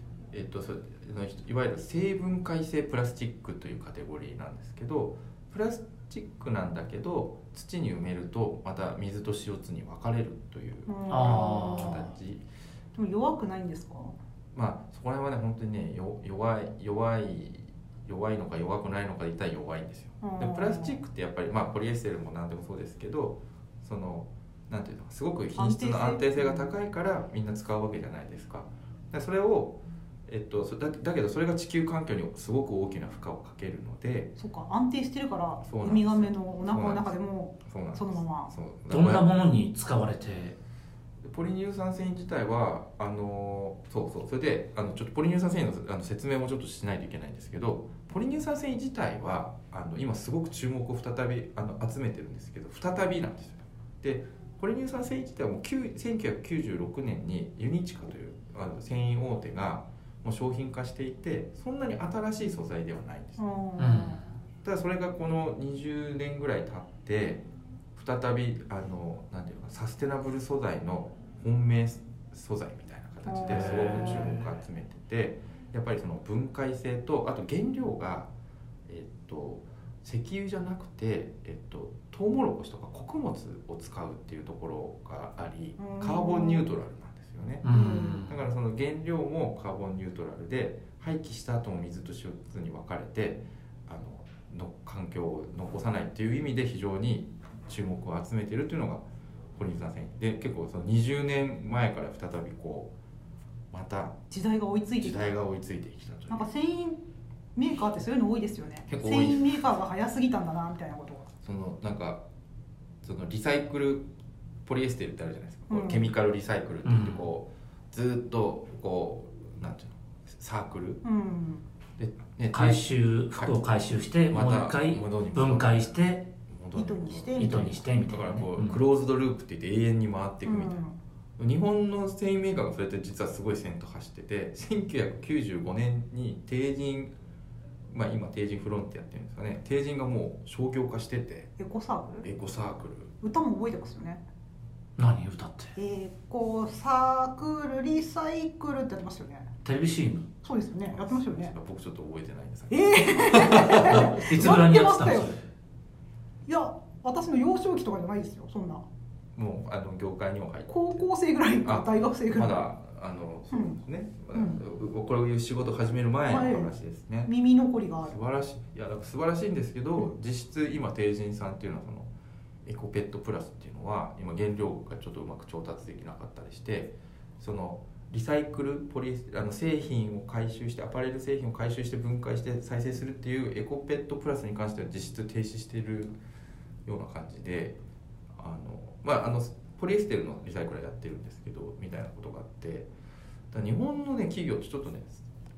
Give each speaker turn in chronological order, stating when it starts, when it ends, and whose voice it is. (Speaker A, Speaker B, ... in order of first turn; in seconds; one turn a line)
Speaker A: 0.3-12.4
Speaker B: 10.9-12.0
Speaker C: 11.1-12.1
Speaker B: 12.9-14.2
Speaker A: 14.5-34.3
Speaker B: 20.2-21.0
Speaker B: 25.6-26.7
Speaker B: 34.4-38.5
Speaker A: 35.6-39.3
Speaker C: 38.9-40.6
Speaker A: 41.2-63.4
Speaker B: 63.4-64.2
Speaker C: 63.8-64.2
Speaker A: 64.6-78.3
Speaker B: 73.2-74.1
Speaker C: 73.5-74.5
Speaker A: 78.9-102.9
Speaker B: 85.8-86.7
Speaker C: 87.6-88.4
Speaker B: 87.7-88.3
Speaker A: 103.7-104.2
Speaker B: 104.3-105.3
Speaker A: 105.0-106.5
Speaker B: 106.3-107.0
Speaker B: 107.5-111.3
Speaker A: 108.9-109.6
Speaker A: 111.4-112.2
Speaker A: 113.0-114.1
Speaker A: 114.6-121.0
Speaker B: 115.7-116.1
Speaker C: 116.8-117.3
Speaker B: 121.0-121.6
Speaker A: 122.0-123.6
Speaker C: 122.5-126.3
Speaker A: 124.3-130.8
Speaker B: 126.7-127.7
Speaker C: 127.4-128.8
Speaker B: 130.4-130.9
Speaker A: 131.4-137.1
Speaker A: 137.9-141.5
Speaker B: 141.6-142.3
Speaker A: 142.2-143.1
Speaker B: 143.2-144.2
Speaker C: 145.0-145.7
Speaker B: 145.7-149.5
Speaker C: 149.6-150.3
Speaker B: 150.4-151.5
Speaker A: 150.9-154.6
Speaker B: 152.7-155.3
Speaker C: 153.3-155.4
Speaker B: 156.4-158.8
Speaker A: 159.3-161.0
Speaker B: 160.7-162.6
Speaker A: 161.6-167.3
Speaker B: 163.5-163.8
Speaker B: 164.3-164.6
Speaker B: 166.3-166.7
Speaker B: 167.2-168.2
Speaker A: 168.1-172.1
Speaker A: 172.6-186.1
Speaker A: 186.8-187.8
Speaker A: 188.3-192.9
Speaker A: 193.5-195.2